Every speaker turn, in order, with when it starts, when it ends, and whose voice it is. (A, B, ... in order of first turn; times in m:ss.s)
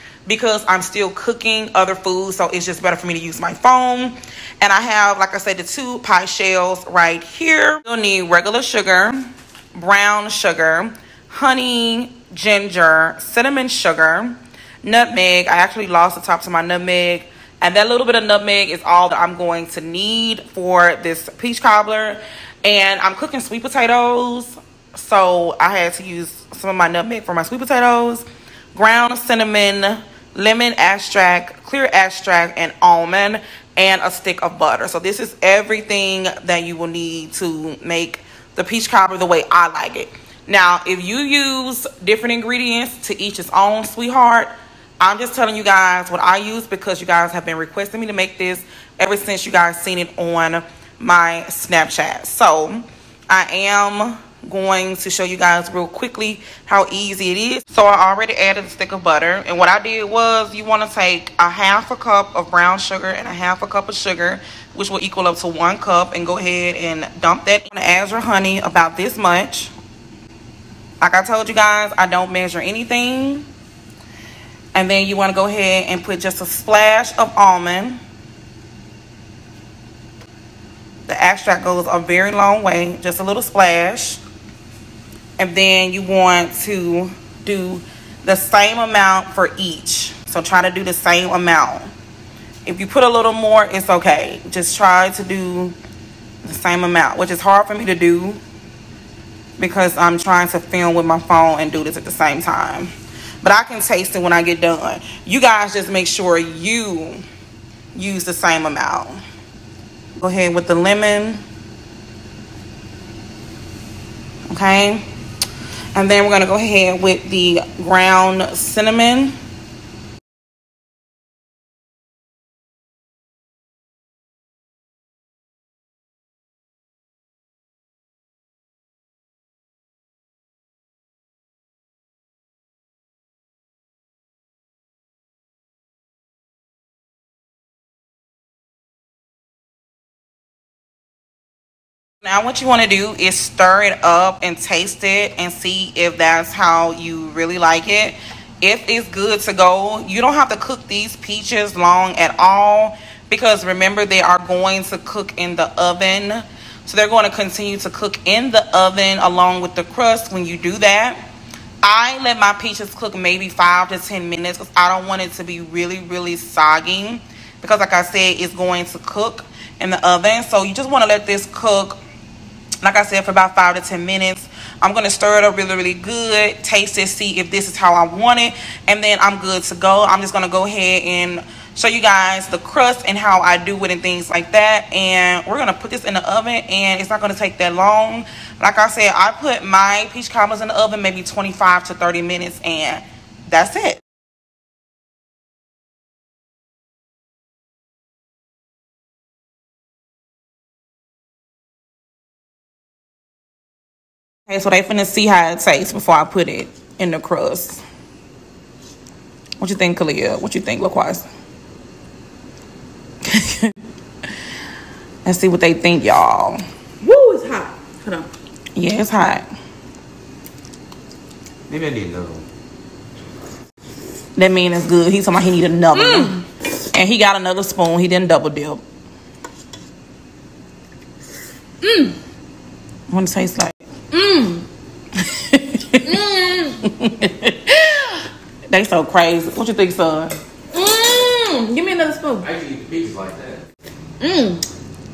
0:00.2-1:09.7 A
1:11.0-1:13.5 A
1:14.7-1:18.0 A
1:21.1-1:24.2 A
1:25.4-1:31.9 A
1:32.6-1:35.7 A
1:36.4-1:38.4 A
1:39.6-1:42.9 A
1:43.4-1:47.2 A
1:47.9-1:49.2 A
1:50.2-1:51.4 A
1:54.5-1:55.0 A
1:55.9-1:59.3 A
2:22.2-2:41.2 A
2:41.8-2:52.0 A
2:52.8-3:14.0 A
3:24.5-3:27.8 A
3:29.6-3:31.3 A
3:33.3-3:33.7 A
3:35.2-3:36.6 A
3:37.0-3:38.3 B
3:38.7-3:39.5 A
3:41.7-3:42.4 C
3:44.3-3:48.8 A
3:51.8-3:52.1 B
3:53.1-3:53.8 A
3:54.1-3:54.6 B
3:55.2-3:56.1 A
3:56.0-3:56.7 B
3:56.8-3:58.1 A
3:58.7-4:00.4 A
4:00.7-4:02.4 B
4:02.4-4:03.6 C
4:04.2-4:04.6 B